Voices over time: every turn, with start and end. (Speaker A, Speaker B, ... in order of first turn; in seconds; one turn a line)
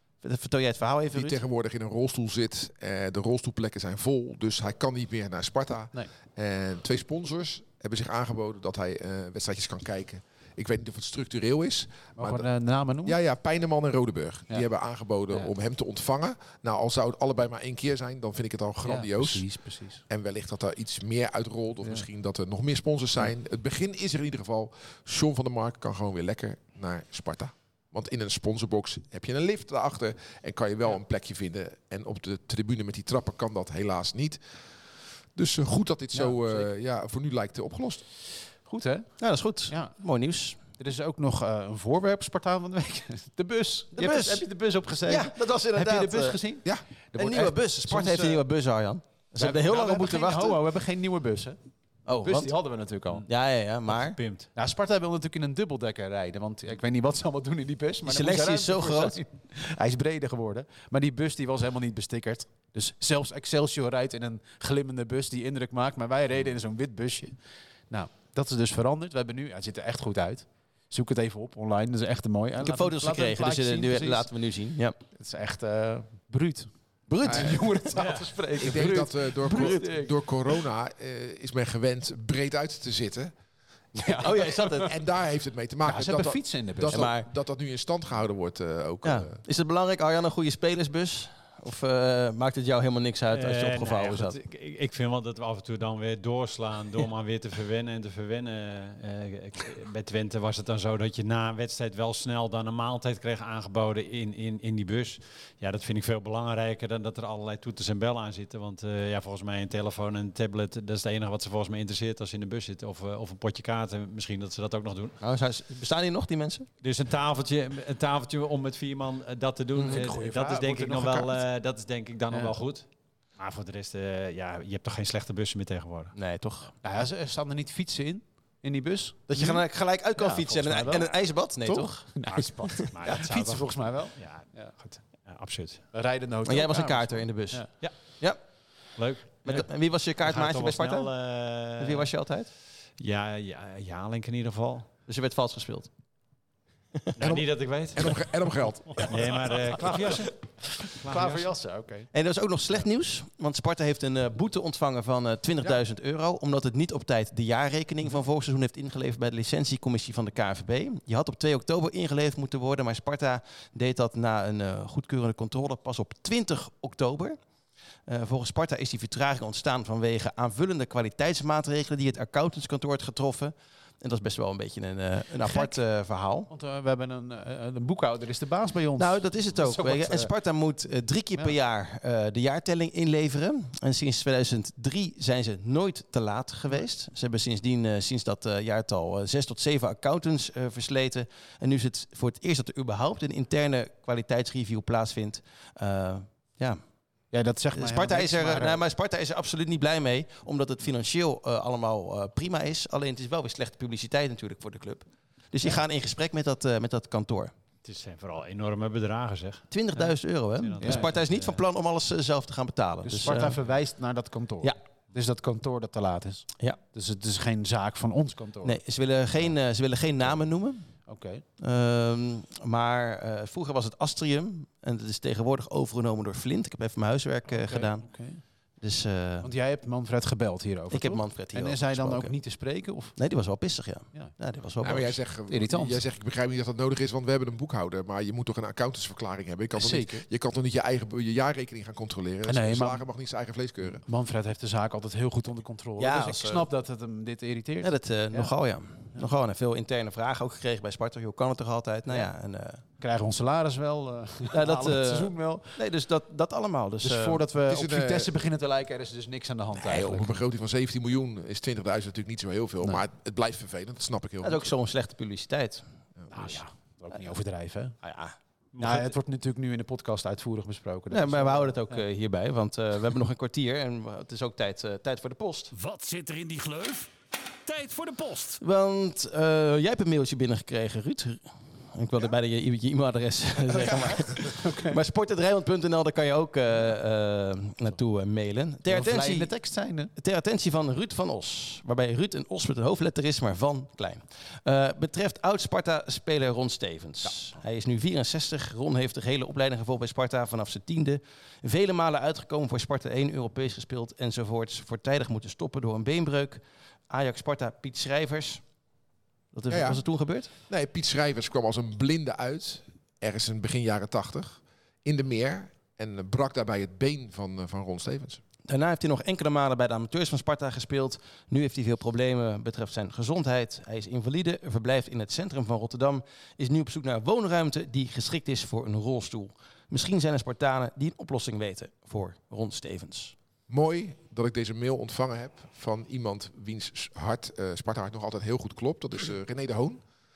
Speaker A: 0.2-1.4
Speaker B: 1.1-12.5
Speaker C: 12.2-13.2
Speaker B: 13.0-34.4
Speaker C: 18.8-20.0
Speaker B: 35.4-38.0
Speaker C: 36.1-36.7
Speaker C: 38.6-40.0
Speaker A: 39.2-40.6
Speaker C: 40.6-48.5
Speaker A: 44.0-46.5
Speaker A: 47.1-50.6
Speaker C: 49.4-53.2
Speaker A: 52.1-52.5
Speaker A: 53.3-54.2
Speaker D: 53.9-54.5
Speaker C: 54.5-67.4
Speaker A: 58.0-59.2
Speaker C: 67.9-74.3
Speaker A: 72.6-75.0
Speaker C: 75.1-80.1
Speaker A: 77.1-78.1
Speaker B: 77.2-77.6
Speaker D: 78.0-78.3
Speaker B: 78.6-83.3
Speaker A: 78.6-79.0
Speaker A: 79.5-79.8
Speaker C: 84.0-84.9
Speaker A: 84.2-84.9
Speaker B: 84.8-89.4
Speaker C: 85.8-87.1
Speaker A: 86.9-87.3
Speaker A: 89.0-94.4
Speaker D: 93.3-115.2
Speaker A: 115.2-116.7
Speaker D: 116.8-126.1
Speaker A: 119.8-120.0
Speaker C: 119.9-121.4
Speaker C: 122.3-122.6
Speaker A: 126.1-126.7
Speaker C: 126.8-129.6
Speaker A: 129.3-132.2
Speaker C: 130.2-134.7
Speaker D: 132.2-135.9
Speaker A: 132.8-133.2
Speaker C: 135.9-137.7
Speaker A: 136.4-141.1
Speaker D: 137.8-142.1
Speaker A: 141.8-142.5
Speaker D: 143.0-144.9
Speaker A: 145.1-145.9
Speaker D: 147.2-148.2
Speaker B: 147.2-149.6
Speaker D: 149.0-151.5
Speaker C: 150.8-152.1
Speaker A: 152.1-167.4
Speaker A: 168.1-176.5
Speaker C: 175.4-175.8
Speaker C: 176.5-180.3
Speaker A: 179.0-196.8
Speaker C: 197.3-198.8
Speaker A: 197.8-207.5
Speaker D: 207.8-211.6
Speaker A: 209.7-213.6
Speaker C: 210.8-211.1
Speaker C: 213.0-218.8
Speaker A: 218.6-221.0
Speaker C: 221.1-221.4
Speaker A: 221.6-229.5
Speaker C: 227.5-228.4
Speaker C: 229.4-233.2
Speaker A: 230.9-232.3
Speaker A: 233.2-235.2
Speaker B: 234.8-244.0
Speaker C: 235.5-236.0
Speaker C: 239.8-240.2
Speaker C: 242.5-243.0
Speaker C: 244.1-248.5
Speaker A: 246.0-246.7
Speaker A: 247.8-252.8
Speaker C: 252.9-255.8
Speaker A: 254.5-257.4
Speaker C: 257.0-260.3
Speaker B: 257.7-258.3
Speaker B: 259.8-264.7
Speaker A: 264.4-265.8
Speaker C: 266.3-268.0
Speaker A: 268.0-268.4
Speaker D: 268.8-269.1
Speaker C: 268.8-272.0
Speaker A: 271.1-275.7
Speaker E: 275.7-277.1
Speaker E: 277.6-278.6
Speaker A: 278.6-308.6
Speaker B: 283.7-284.2
Speaker C: 284.4-285.0
Speaker C: 288.9-290.1
Speaker A: 309.5-310.5
Speaker B: 309.7-310.0
Speaker B: 310.6-318.4
Speaker A: 318.7-333.4
Speaker B: 333.7-340.0